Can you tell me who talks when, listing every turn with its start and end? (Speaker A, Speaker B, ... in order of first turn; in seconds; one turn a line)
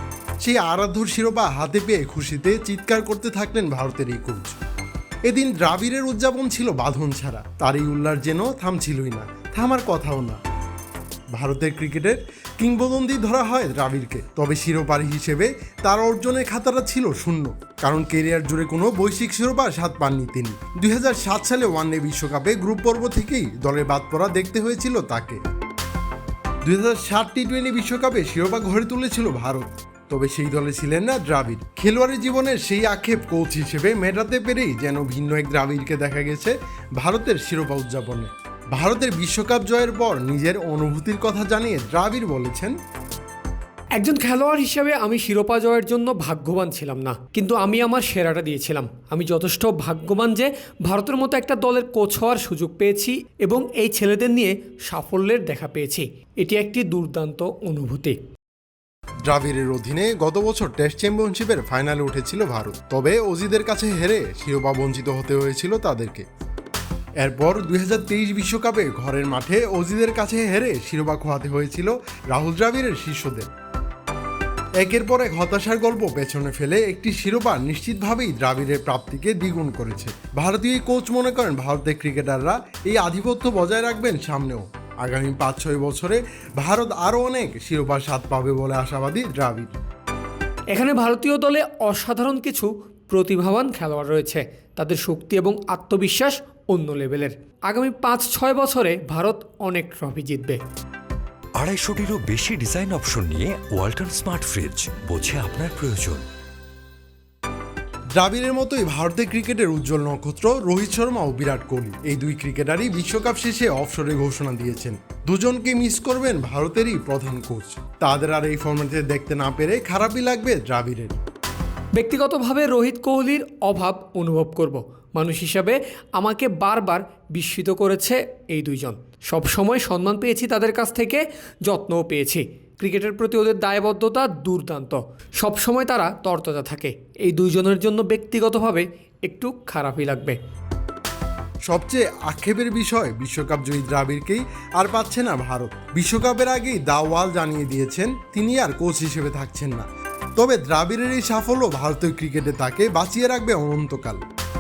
Speaker A: 0.4-4.6
Speaker A: 5.2-10.4
Speaker A: 11.3-25.4
Speaker A: 26.6-42.8
Speaker B: 44.0-58.2
Speaker A: 59.2-66.2
Speaker A: 67.2-73.5
Speaker A: 74.8-89.8
Speaker B: 90.7-100.6
Speaker C: 101.6-106.2
Speaker A: 108.2-121.2
Speaker B: 122.0-140.4
Speaker A: 141.7-154.2